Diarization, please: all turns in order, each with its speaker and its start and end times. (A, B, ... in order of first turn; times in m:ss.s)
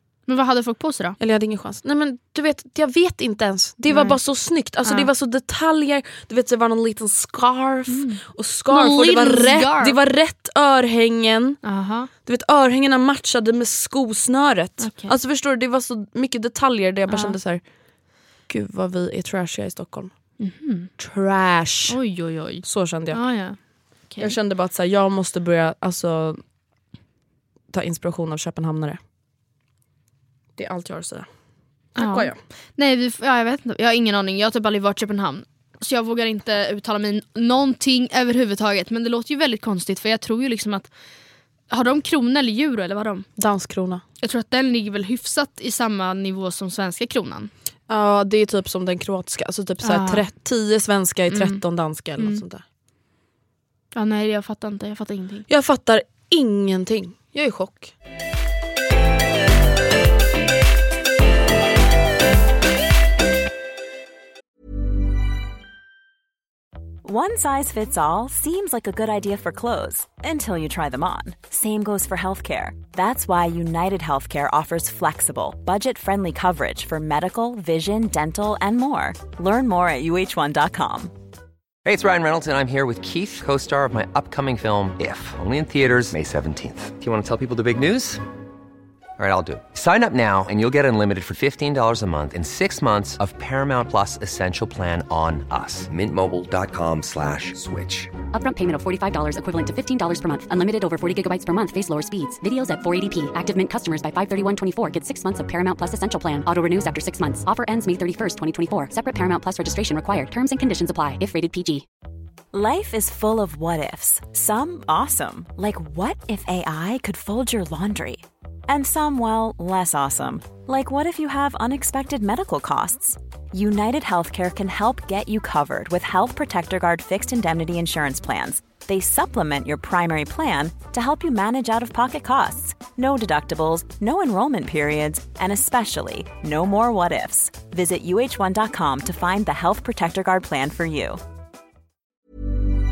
0:00.3-0:01.2 A
0:01.2-0:11.6 B
0:03.9-0:04.2 A
0:04.8-0:05.1 A
0:07.9-0:10.0 A
0:11.6-0:12.1 A
0:12.2-0:17.6 B
0:14.8-0:15.1 A
0:17.1-0:17.4 A
0:18.5-0:20.4 B
0:20.4-0:20.9 A
0:21.0-0:22.0 B
0:21.9-0:24.3 A
0:22.6-0:23.2 B
0:24.2-0:26.4 B
0:27.7-0:29.0 B
0:30.6-0:31.3 B
0:31.9-0:32.4 B
0:32.0-0:40.9 A
0:41.7-0:43.3 A
0:43.4-0:44.0 B
0:44.2-0:47.5 A
0:47.9-0:52.6 B
0:49.8-0:50.2 A
0:51.3-0:51.6 A
0:52.2-0:52.4 A
0:53.9-0:55.5 A
0:55.5-0:57.9 B
1:07.0-1:21.1 C
1:21.8-1:28.2 D
1:29.2-1:38.2 D
1:38.3-1:51.8 E
1:52.5-2:21.2 C